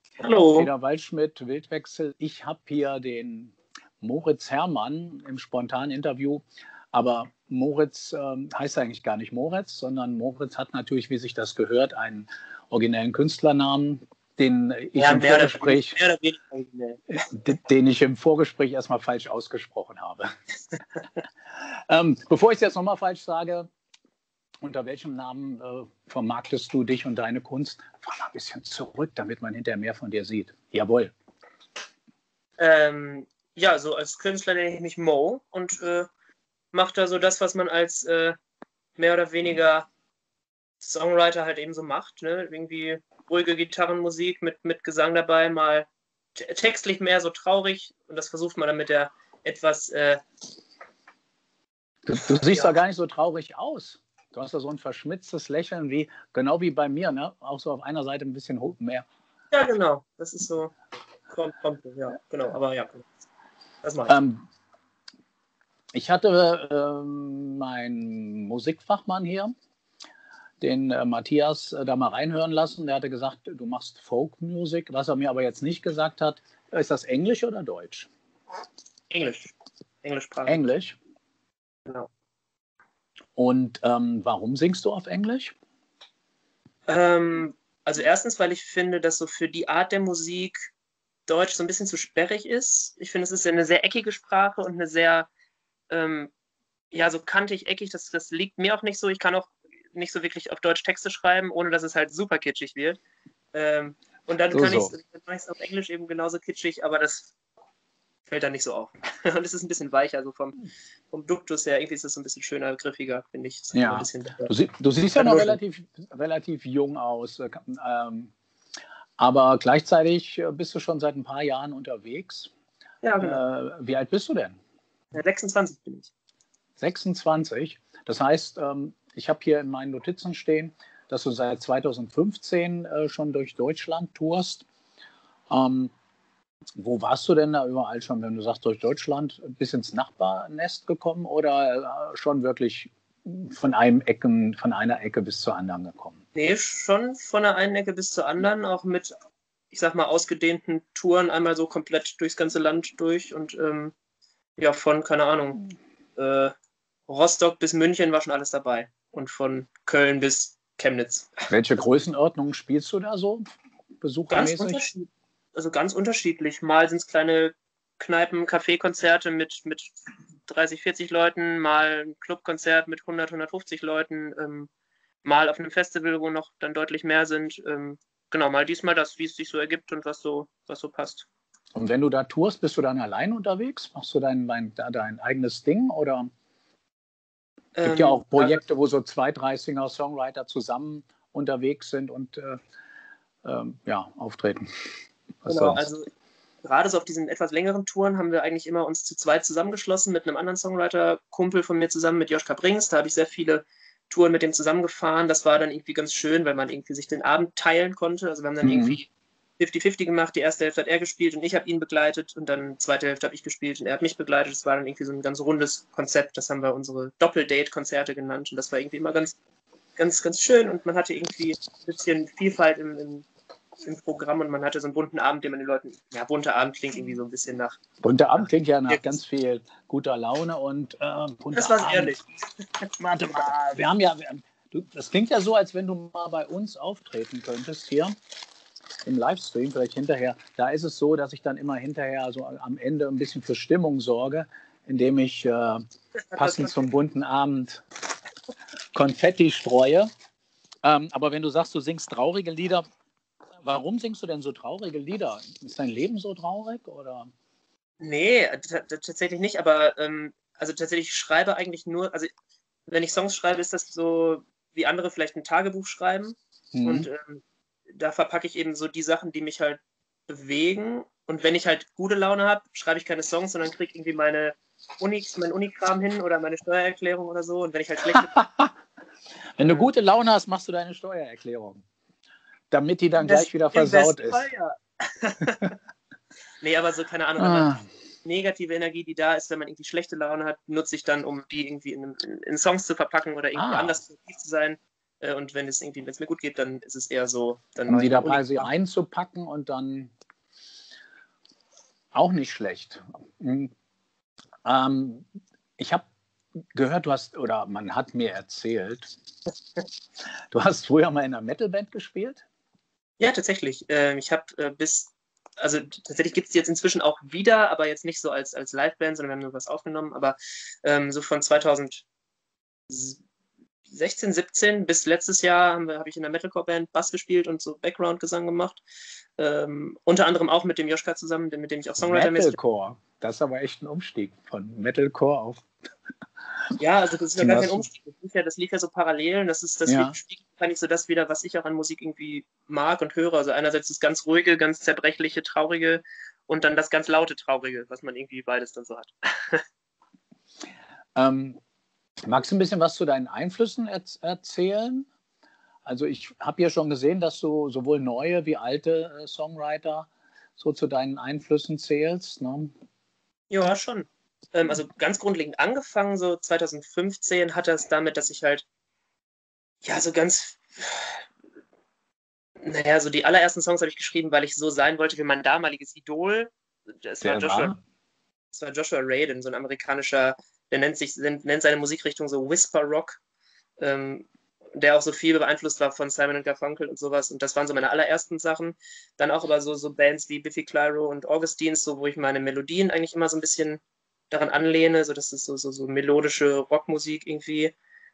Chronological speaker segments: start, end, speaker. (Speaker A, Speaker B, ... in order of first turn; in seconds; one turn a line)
Speaker A: 0.2-0.7
Speaker B: 0.6-16.0
Speaker A: 14.9-17.0
Speaker B: 17.1-20.3
Speaker B: 21.6-23.7
Speaker B: 24.6-31.1
Speaker A: 32.6-36.1
Speaker A: 36.7-38.4
Speaker A: 39.0-39.9
Speaker A: 40.8-50.2
Speaker B: 52.0-59.0
Speaker A: 52.3-52.8
Speaker A: 59.5-60.7
Speaker A: 61.3-63.1
Speaker A: 63.8-64.2
Speaker B: 64.1-64.4
Speaker B: 65.9-69.5
Speaker B: 70.6-78.1
Speaker A: 79.1-80.7
Speaker B: 80.5-81.0
Speaker B: 83.3-85.5
Speaker A: 86.9-90.7
Speaker A: 91.3-95.3
Speaker A: 95.9-96.3
Speaker A: 96.9-103.0
Speaker A: 103.5-107.3
Speaker B: 104.5-104.9
Speaker A: 108.3-110.5
Speaker A: 111.1-114.5
Speaker B: 113.7-118.3
Speaker A: 115.2-115.6
Speaker B: 119.2-122.5
Speaker A: 123.0-123.4
Speaker B: 123.2-124.6
Speaker A: 125.1-126.1
Speaker B: 126.8-134.6
Speaker B: 135.5-135.9
Speaker B: 136.8-146.2
Speaker A: 146.3-149.1
Speaker A: 149.7-153.9
Speaker A: 154.6-155.6
Speaker A: 156.2-156.5
Speaker A: 157.1-161.3
Speaker B: 161.5-163.4
Speaker B: 164.0-164.9
Speaker A: 164.3-169.9
Speaker A: 170.4-174.7
Speaker A: 175.2-181.3
Speaker B: 181.7-186.3
Speaker A: 187.7-188.6
Speaker B: 187.8-192.6
Speaker B: 193.4-194.7
Speaker B: 195.4-195.8
Speaker A: 195.4-196.1
Speaker A: 196.6-209.1
Speaker B: 208.6-209.0
Speaker A: 209.6-219.3
Speaker A: 220.0-223.3
Speaker A: 223.8-227.8
Speaker B: 228.0-232.2
Speaker A: 228.3-229.2
Speaker A: 231.5-232.2
Speaker B: 233.0-238.1
Speaker B: 239.0-245.8
Speaker A: 246.3-246.7
Speaker B: 246.3-247.8
Speaker B: 248.9-250.1
Speaker B: 250.8-252.8
Speaker B: 253.6-257.3
Speaker A: 258.0-262.3
Speaker A: 262.9-278.4
Speaker B: 266.7-267.1
Speaker B: 278.3-278.7
Speaker B: 279.6-281.8
Speaker A: 279.6-279.9
Speaker B: 282.7-284.4
Speaker A: 283.2-285.7
Speaker A: 286.6-298.7
Speaker B: 287.4-287.8
Speaker B: 293.6-293.9
Speaker B: 297.9-300.1
Speaker B: 302.1-303.7
Speaker B: 304.6-305.2
Speaker B: 305.8-306.0
Speaker B: 306.7-309.1
Speaker B: 310.5-312.4
Speaker A: 313.2-322.0
Speaker A: 322.9-323.2
Speaker A: 323.9-328.8
Speaker A: 329.4-332.6
Speaker B: 332.0-335.6
Speaker A: 336.8-349.6
Speaker B: 337.4-337.9
Speaker B: 339.9-340.1
Speaker B: 351.1-351.6
Speaker B: 352.2-355.1
Speaker B: 355.9-362.7
Speaker A: 363.5-368.6
Speaker A: 369.8-371.2
Speaker A: 372.6-376.5
Speaker A: 377.0-377.7
Speaker B: 377.2-377.8
Speaker A: 378.5-383.2
Speaker A: 383.8-397.7